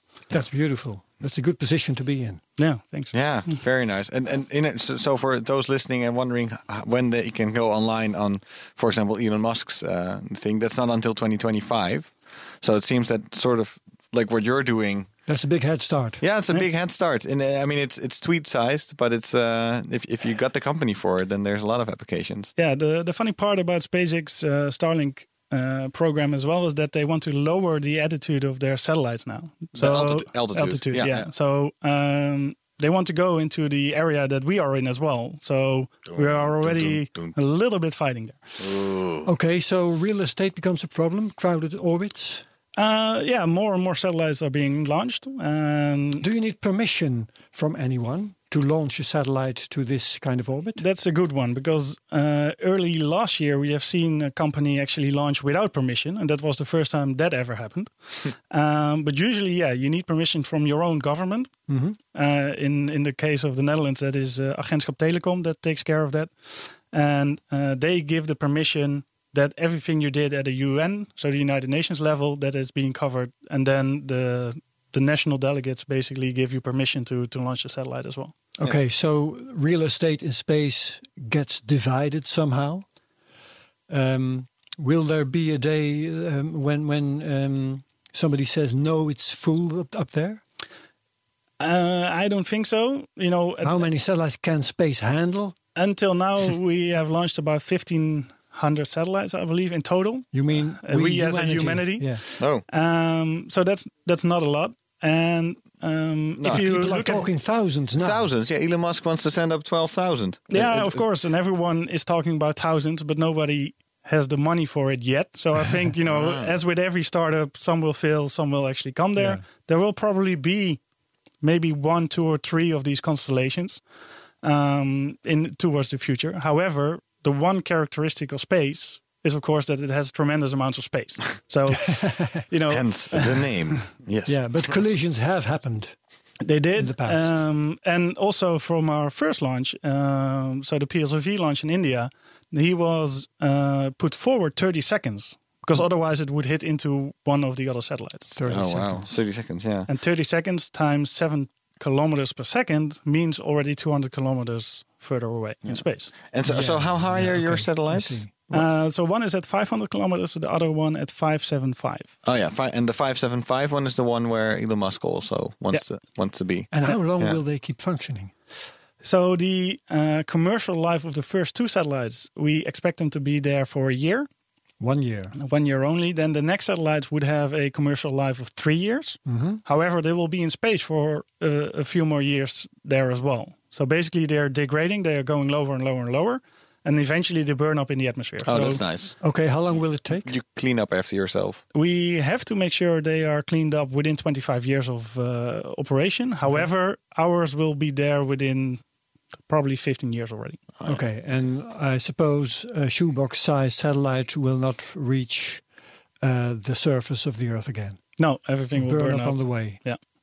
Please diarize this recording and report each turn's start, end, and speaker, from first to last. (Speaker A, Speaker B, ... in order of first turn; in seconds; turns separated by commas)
Speaker A: 0.3-2.4, Speaker B: 2.6-3.6, Speaker C: 3.1-15.1, Speaker A: 15.3-16.2, Speaker C: 16.2-22.5, Speaker B: 22.6-38.6, Speaker C: 29.8-31.3, Speaker C: 36.1-37.4, Speaker C: 38.6-39.3, Speaker A: 39.2-42.5, Speaker B: 42.8-46.3, Speaker A: 46.2-50.8, Speaker B: 50.8-61.5, Speaker A: 61.7-62.0, Speaker B: 62.1-78.3, Speaker A: 78.6-82.8, Speaker A: 83.9-90.4, Speaker B: 91.6-93.9, Speaker A: 93.6-95.6, Speaker B: 95.8-107.3, Speaker A: 100.3-102.2, Speaker C: 106.4-106.9, Speaker A: 106.5-108.3, Speaker C: 108.0-111.0, Speaker B: 110.5-120.8, Speaker C: 116.1-116.5, Speaker A: 119.2-119.4, Speaker B: 121.4-123.8, Speaker B: 124.4-133.8, Speaker A: 131.9-132.4, Speaker C: 132.7-134.4, Speaker A: 134.3-135.9, Speaker B: 136.4-148.4, Speaker A: 136.8-137.4, Speaker A: 148.3-149.1, Speaker C: 148.5-149.9, Speaker B: 149.9-156.2, Speaker C: 155.7-158.6, Speaker A: 156.5-158.5, Speaker B: 158.5-162.2, Speaker C: 162.2-167.4, Speaker A: 166.7-168.3, Speaker B: 169.0-174.3, Speaker A: 174.8-175.4, Speaker B: 175.4-188.8, Speaker A: 179.3-179.6, Speaker C: 188.4-189.2, Speaker A: 189.2-190.3, Speaker C: 190.2-191.6, Speaker B: 191.7-198.8, Speaker B: 199.5-200.6, Speaker A: 200.8-205.6, Speaker A: 206.2-208.0, Speaker B: 208.2-210.0, Speaker A: 208.8-209.8